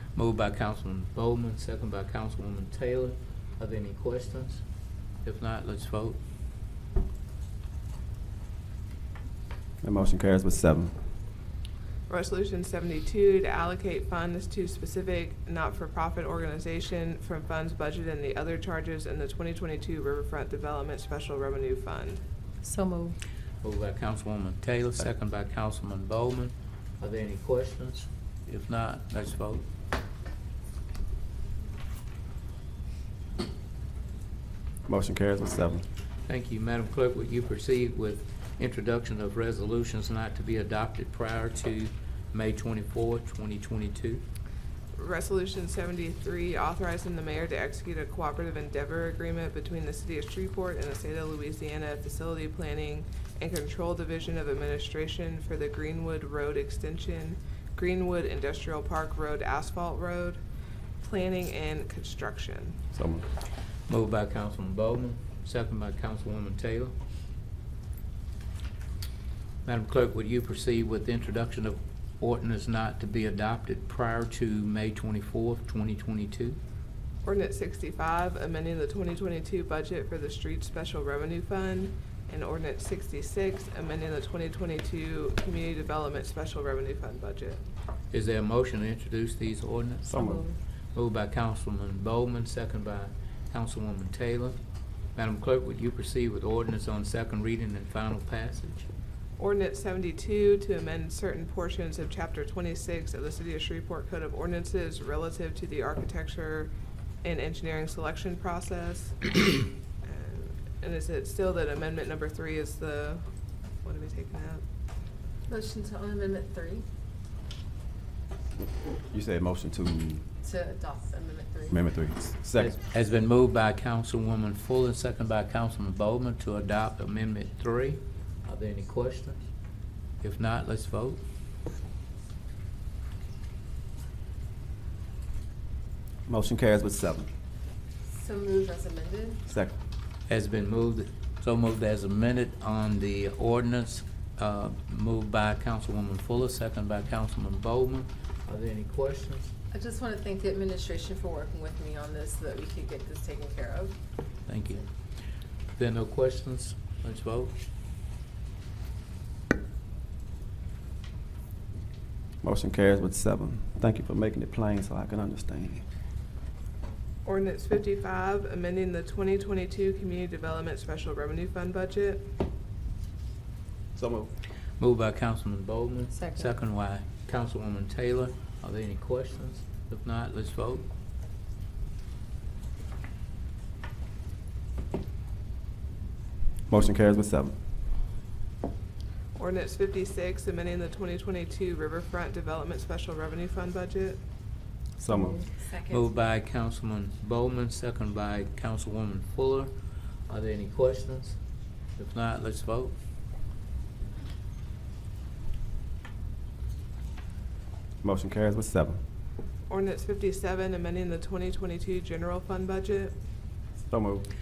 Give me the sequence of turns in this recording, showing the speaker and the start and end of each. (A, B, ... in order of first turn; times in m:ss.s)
0:00.1-0:04.6 A
0:05.2-0:06.2 A
0:09.8-0:10.9 B
0:12.1-0:22.2 C
0:22.6-0:23.2 D
0:23.6-0:29.6 A
0:34.9-0:35.8 B
0:36.2-0:44.2 A
0:44.9-1:00.4 C
1:01.0-1:02.8 C
1:02.9-1:03.2 B
1:03.9-1:06.9 A
1:09.6-1:16.6 A
1:17.2-1:27.6 C
1:28.1-1:30.1 A
1:30.0-1:30.4 B
1:30.2-1:30.5 D
1:30.9-1:34.6 A
1:35.1-1:38.9 A
1:39.4-1:46.7 C
1:47.2-1:49.4 C
1:50.0-1:53.2 C
1:53.8-1:54.6 C
1:55.5-1:56.8 D
1:59.1-2:00.2 B
2:00.4-2:01.8 D
2:01.7-2:02.8 B
2:02.6-2:09.4 A
2:10.2-2:11.2 A
2:16.3-2:17.3 B
2:18.1-2:19.4 D
2:19.5-2:19.7 B
2:20.3-2:29.5 A
2:29.7-2:33.9 D
2:34.5-2:34.9 A
2:35.7-2:37.5 A
2:42.4-2:45.8 B
2:47.2-2:52.3 C
2:53.9-2:54.3 B
2:54.8-3:00.9 A
2:56.1-2:56.5 D
3:06.7-3:07.5 B
3:09.3-3:14.2 C
3:15.0-3:16.0 D
3:15.0-3:15.4 B
3:15.8-3:19.7 A
3:20.3-3:21.4 A
3:22.0-3:22.9 A
3:28.0-3:29.0 B
3:29.7-3:33.1 C
3:33.8-3:34.2 B